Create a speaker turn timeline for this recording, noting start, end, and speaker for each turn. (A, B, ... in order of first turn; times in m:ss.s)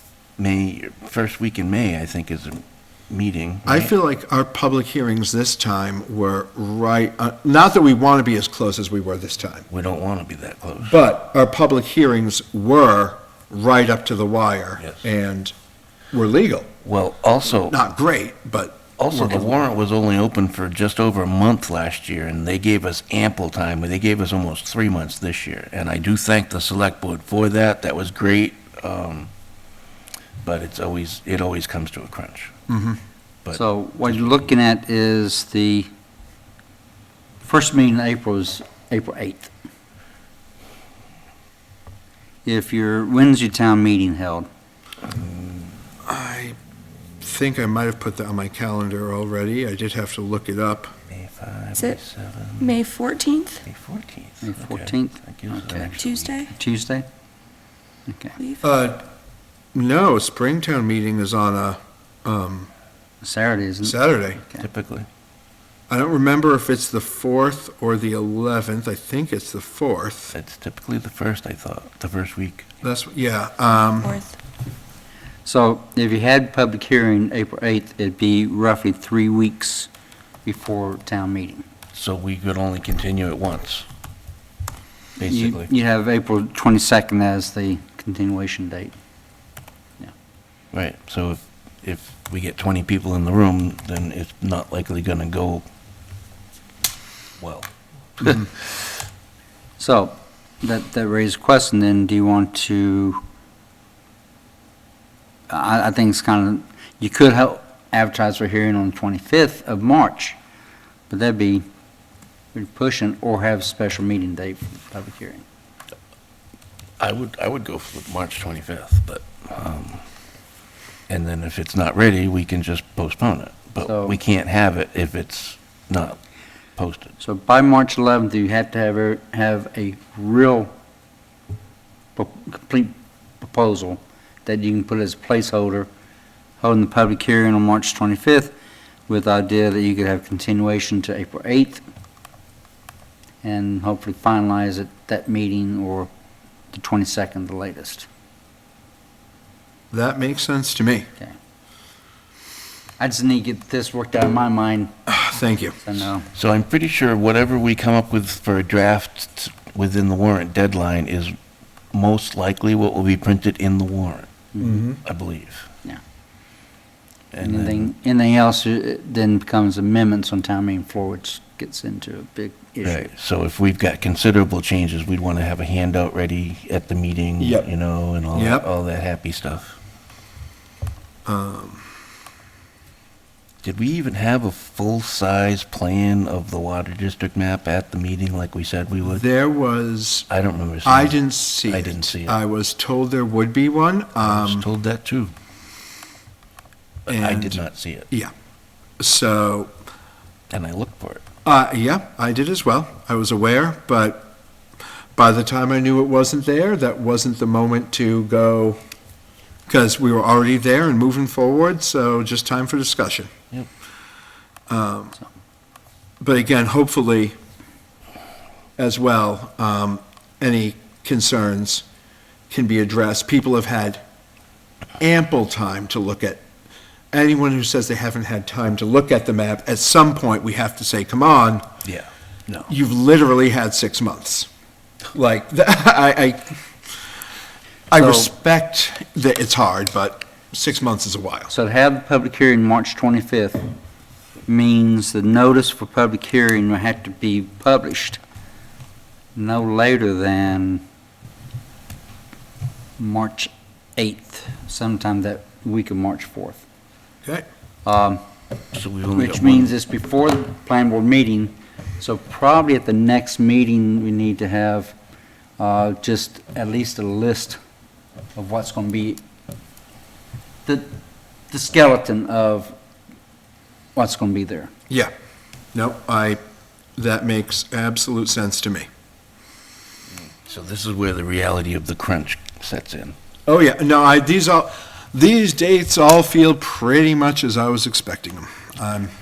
0:00.4-0:03.9 A
0:03.7-0:09.7 B
0:09.7-0:11.0 A
0:10.9-0:15.5 B
0:14.8-0:15.0 A
0:16.1-0:16.7 B
0:16.8-0:17.8 A
0:17.7-0:19.4 B
0:19.0-0:29.3 A
0:19.3-0:19.5 C
0:30.4-0:32.5 A
0:32.7-0:33.0 B
0:33.4-0:34.4 A
0:33.5-0:35.9 C
0:37.4-0:39.5 C
0:42.4-0:44.5 C
0:45.1-0:45.7 A
0:46.1-0:46.6 B
0:47.2-0:50.9 B
0:51.1-0:52.7 A
0:52.6-0:53.6 D
0:53.6-0:56.4 A
0:54.4-0:56.0 C
0:56.0-0:56.5 D
0:56.5-0:57.1 C
0:58.1-0:58.4 C
0:58.4-0:58.6 D
0:58.6-0:59.1 B
0:59.7-1:02.7 B
1:03.2-1:04.7 C
1:03.8-1:04.4 B
1:04.6-1:05.1 A
1:05.9-1:10.4 B
1:10.3-1:12.7 A
1:12.8-1:14.2 B
1:13.7-1:14.4 D
1:15.4-1:19.9 C
1:20.4-1:21.7 C
1:21.9-1:23.9 A
1:25.2-1:25.7 A
1:25.2-1:28.9 C
1:30.7-1:35.6 A
1:37.4-1:37.7 A
1:38.2-1:38.5 A
1:39.8-1:43.2 C
1:45.5-1:50.4 C
1:51.1-1:51.6 C
1:52.5-1:55.4 C
1:57.0-2:00.0 A
2:01.1-2:06.2 A
2:03.8-2:04.2 C
2:06.8-2:07.1 A
2:07.2-2:10.7 C
2:12.2-2:15.9 C
2:16.6-2:18.6 C
2:19.1-2:21.8 C
2:23.4-2:26.1 C
2:26.7-2:28.1 C
2:29.9-2:31.1 B
2:33.0-2:34.9 C
2:35.1-2:35.9 B
2:35.8-2:36.3 C
2:36.3-2:41.4 A
2:41.9-2:44.3 A
2:44.5-2:44.9 C
2:44.6-2:45.0 B
2:45.0-2:45.7 A
2:47.3-2:47.9 A
2:47.4-2:53.1 C
2:52.8-2:59.8 A
2:57.4-2:57.7 B
2:58.3-2:58.7 B
3:01.3-3:01.8 B
3:03.6-3:09.2 A
3:09.1-3:10.3 B
3:10.3-3:12.4 A
3:10.8-3:14.7 B
3:14.2-3:15.3 A
3:17.1-3:18.1 A
3:17.1-3:18.3 B
3:19.0-3:19.7 B
3:20.5-3:21.2 A
3:21.4-3:24.3 B
3:25.2-3:28.8 B
3:29.7-3:33.3 B
3:34.7-3:35.2 B
3:36.2-3:37.4 B
3:38.8-3:41.8 B
3:42.5-3:44.0 B
3:45.0-3:46.4 B
3:47.1-3:51.7 B
3:52.5-3:54.5 B
3:55.1-3:56.5 B
3:57.9-4:01.5 B
3:57.9-3:58.3 C
4:01.5-4:03.7 C
4:04.5-4:08.2 C
4:09.4-4:10.8 C
4:13.0-4:16.6 C
4:17.8-4:18.2 C
4:18.7-4:19.7 A
4:19.2-4:25.0 C
4:25.6-4:27.6 C
4:28.4-4:29.2 C
4:30.7-4:30.9 C
4:31.5-4:32.7 C
4:34.0-4:34.7 C
4:35.7-4:36.4 B
4:37.0-4:38.9 B
4:40.4-4:43.2 A
4:43.5-4:49.1 B